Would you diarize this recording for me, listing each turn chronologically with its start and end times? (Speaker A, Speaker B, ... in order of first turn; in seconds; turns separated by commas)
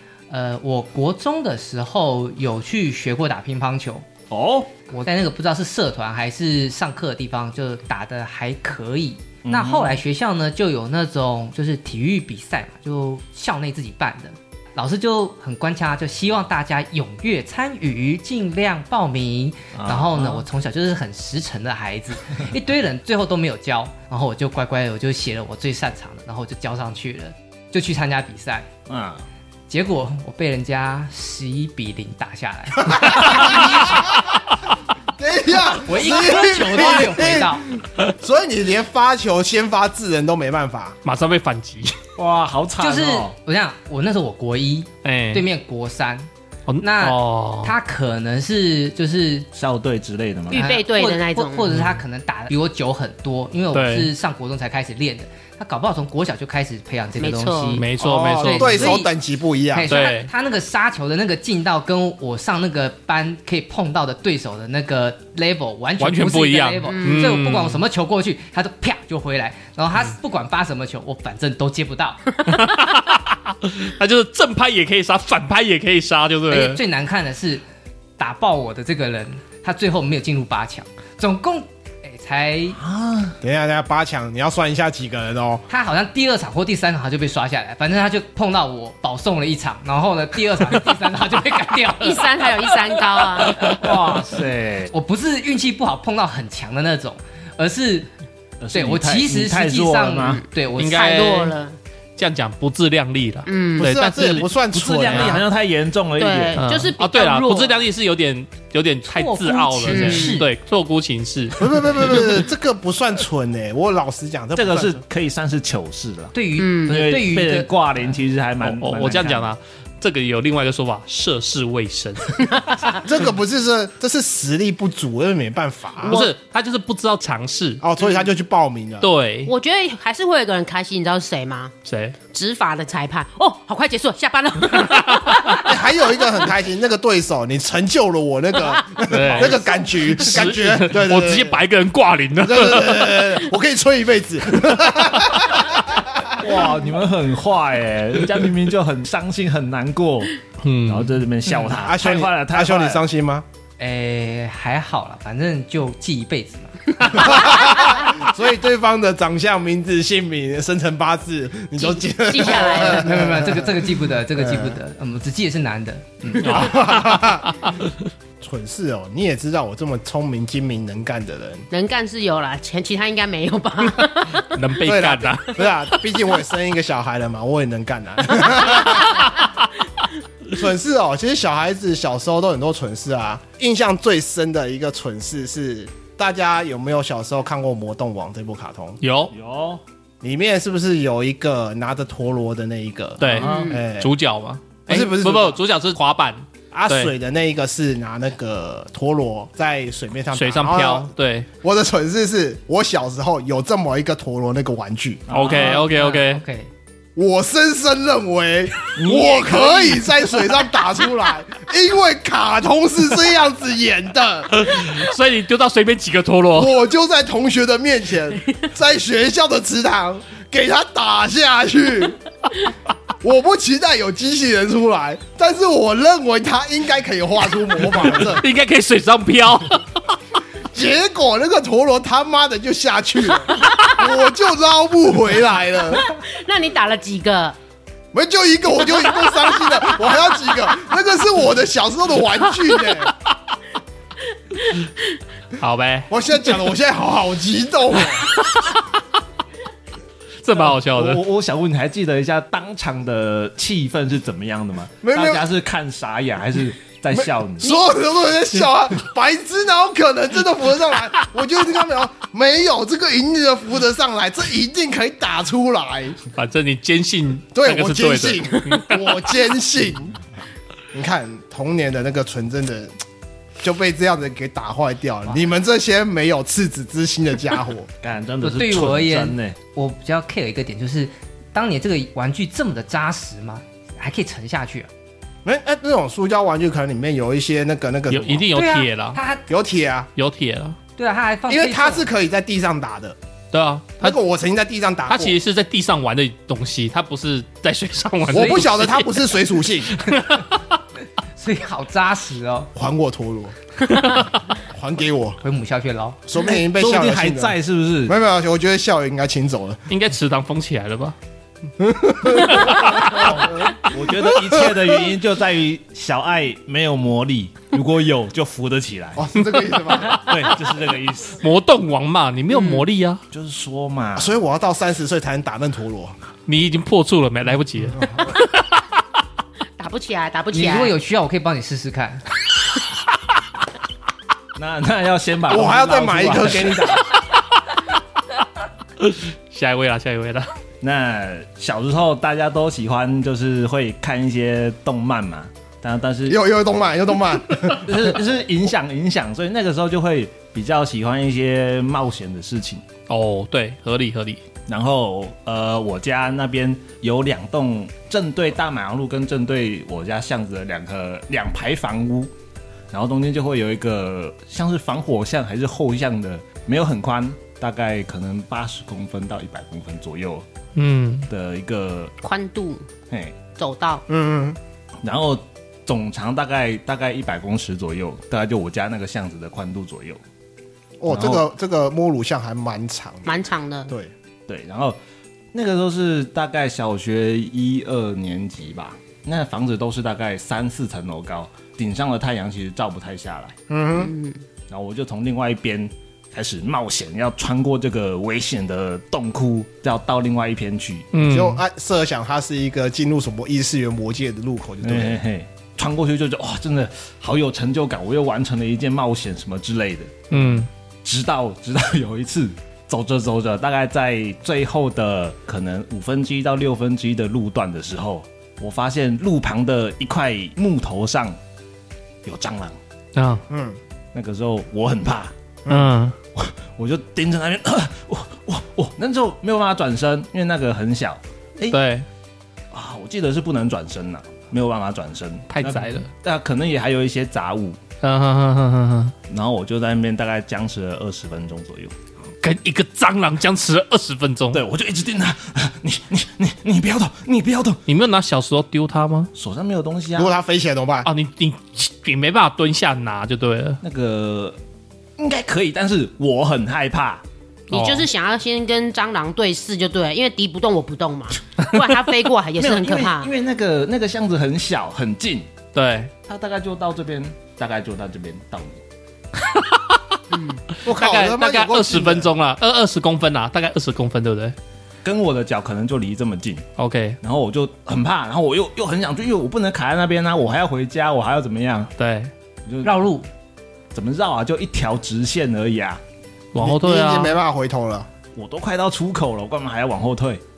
Speaker A: 0.3-4.1, Speaker B: 4.3-4.7, Speaker A: 4.9-28.7, Speaker B: 9.4-10.0, Speaker B: 19.7-20.4, Speaker B: 28.9-29.2, Speaker A: 29.7-33.7, Speaker C: 32.9-34.4, Speaker C: 35.2-41.0, Speaker A: 35.8-37.7, Speaker D: 41.0-42.0, Speaker B: 42.2-43.4, Speaker A: 42.8-46.3, Speaker D: 45.0-45.5, Speaker D: 46.7-47.7, Speaker A: 46.8-49.5, Speaker B: 49.5-50.7, Speaker E: 50.5-51.7, Speaker A: 50.5-59.1, Speaker D: 51.7-52.0, Speaker D: 53.7-54.1, Speaker E: 57.2-57.8, Speaker D: 57.8-59.0, Speaker C: 58.0-59.9, Speaker A: 59.7-72.2, Speaker D: 59.9-60.3, Speaker D: 66.0-67.8, Speaker E: 66.8-67.4, Speaker D: 72.5-76.8, Speaker A: 76.5-77.6, Speaker A: 78.2-82.8, Speaker B: 82.8-83.3, Speaker C: 83.4-85.6, Speaker A: 85.7-92.6, Speaker E: 92.0-93.7, Speaker A: 93.5-94.3, Speaker B: 93.6-94.9, Speaker A: 94.9-98.1, Speaker B: 98.6-100.4, Speaker A: 98.7-101.0, Speaker E: 100.8-101.8, Speaker D: 100.8-101.6, Speaker D: 102.2-104.5, Speaker E: 103.5-103.8, Speaker C: 103.8-105.4, Speaker B: 104.7-106.6, Speaker D: 105.1-105.4, Speaker E: 106.2-107.9, Speaker D: 106.6-112.2, Speaker A: 109.1-110.5, Speaker E: 109.9-110.4, Speaker C: 111.6-115.0, Speaker B: 114.6-116.3, Speaker A: 116.3-117.7, Speaker E: 116.6-116.9, Speaker B: 116.9-119.5, Speaker D: 118.6-122.4, Speaker E: 122.4-123.0, Speaker C: 123.0-126.2, Speaker D: 126.0-127.8, Speaker E: 126.1-126.3, Speaker C: 127.8-129.1, Speaker D: 129.0-129.5, Speaker E: 129.5-131.7, Speaker D: 131.8-132.2, Speaker E: 132.3-135.7, Speaker C: 135.6-141.6, Speaker D: 139.1-143.4, Speaker C: 142.4-146.5, Speaker B: 146.4-153.0, Speaker D: 150.6-151.1, Speaker C: 151.8-153.4, Speaker A: 153.8-157.6, Speaker C: 157.1-164.8, Speaker E: 161.8-163.3, Speaker A: 162.7-166.7, Speaker D: 166.4-167.9, Speaker C: 166.5-167.6, Speaker C: 168.4-171.7, Speaker E: 171.7-174.6, Speaker D: 174.4-175.9, Speaker C: 174.8-179.3, Speaker C: 180.5-189.0, Speaker D: 189.0-189.3, Speaker B: 189.3-189.8, Speaker C: 190.2-194.1, Speaker D: 193.2-197.1, Speaker E: 193.3-193.8, Speaker B: 193.4-193.7, Speaker C: 194.9-195.6, Speaker C: 196.7-201.1, Speaker D: 200.3-201.5, Speaker C: 201.6-205.2, Speaker B: 205.3-205.8, Speaker D: 205.3-206.4, Speaker A: 205.4-206.7, Speaker C: 207.2-214.9, Speaker B: 209.0-210.1, Speaker D: 214.5-216.8, Speaker C: 216.6-222.2, Speaker C: 223.2-228.4, Speaker D: 228.2-229.8, Speaker C: 230.7-236.1, Speaker E: 233.6-233.9, Speaker E: 236.0-237.6, Speaker C: 238.1-243.1, Speaker E: 239.4-239.8, Speaker D: 245.6-246.1, Speaker C: 246.1-248.3, Speaker D: 248.4-248.8, Speaker D: 250.4-251.2, Speaker B: 250.6-257.8, Speaker C: 255.0-255.4, Speaker C: 257.6-266.2, Speaker D: 266.4-269.0, Speaker C: 267.5-270.2, Speaker C: 270.9-272.9, Speaker C: 273.6-277.9, Speaker B: 278.0-279.6, Speaker A: 278.4-284.9, Speaker C: 285.4-288.5, Speaker D: 288.1-289.2, Speaker A: 288.6-289.4, Speaker C: 289.5-290.1, Speaker D: 290.2-290.8, Speaker A: 291.0-292.1, Speaker C: 291.5-293.2, Speaker D: 293.5-294.2, Speaker C: 294.0-295.4, Speaker D: 295.1-299.2, Speaker C: 298.3-299.9, Speaker A: 298.3-298.8, Speaker D: 299.9-300.6, Speaker A: 301.4-302.7, Speaker C: 302.8-303.6, Speaker D: 303.9-304.3, Speaker C: 304.7-305.4, Speaker A: 305.4-306.2, Speaker C: 306.3-307.6, Speaker B: 306.6-308.1, Speaker C: 308.1-309.8, Speaker D: 309.9-311.2, Speaker C: 311.8-313.4, Speaker D: 312.5-313.3, Speaker B: 313.5-319.3, Speaker C: 319.2-320.2, Speaker B: 320.2-321.4, Speaker D: 321.4-323.2, Speaker E: 322.5-322.8, Speaker B: 323.3-324.3, Speaker C: 324.2-326.1, Speaker D: 326.5-328.5, Speaker E: 329.8-330.9, Speaker A: 330.5-332.2, Speaker B: 334.6-337.0, Speaker C: 335.5-337.0, Speaker D: 339.0-340.5, Speaker B: 340.8-346.4, Speaker C: 346.3-348.2, Speaker B: 347.8-352.8, Speaker D: 353.1-354.4, Speaker B: 354.7-362.3, Speaker B: 362.9-370.4, Speaker D: 370.8-371.3, Speaker B: 371.3-372.1, Speaker E: 372.2-372.9, Speaker B: 373.1-373.4, Speaker E: 373.6-374.0, Speaker C: 374.1-374.6, Speaker B: 375.0-380.2, Speaker C: 381.0-384.1, Speaker B: 381.1-381.4, Speaker E: 383.3-383.9, Speaker B: 384.5-385.0, Speaker B: 385.5-393.6, Speaker C: 393.7-394.1, Speaker E: 393.9-394.4, Speaker B: 394.7-401.1, Speaker D: 401.1-401.6, Speaker C: 401.2-405.2, Speaker B: 404.8-421.4, Speaker D: 410.3-410.7, Speaker B: 422.2-422.8, Speaker D: 423.1-423.4, Speaker C: 423.5-423.8, Speaker B: 424.1-425.3, Speaker C: 425.7-425.9, Speaker D: 425.7-426.1, Speaker B: 426.4-431.8, Speaker D: 431.7-432.1, Speaker B: 432.7-437.8, Speaker D: 435.5-436.1, Speaker D: 438.0-439.1, Speaker B: 439.3-441.9, Speaker D: 442.4-444.6, Speaker B: 444.5-447.8, Speaker D: 447.9-449.3, Speaker B: 449.4-450.3, Speaker C: 450.2-451.1, Speaker D: 451.1-453.8, Speaker B: 453.8-454.6, Speaker B: 455.2-457.2, Speaker E: 457.7-463.3, Speaker D: 457.7-458.1, Speaker B: 462.6-465.5, Speaker D: 465.7-466.1, Speaker B: 466.2-468.8, Speaker D: 469.4-470.2, Speaker E: 470.3-470.6, Speaker C: 470.9-472.3, Speaker D: 470.9-474.6, Speaker B: 475.0-476.6, Speaker D: 476.8-477.2, Speaker B: 477.2-481.9, Speaker D: 482.0-482.3, Speaker B: 482.6-483.0, Speaker A: 482.8-483.3, Speaker B: 483.9-486.0, Speaker D: 486.5-487.4, Speaker C: 486.6-488.1, Speaker B: 488.3-490.4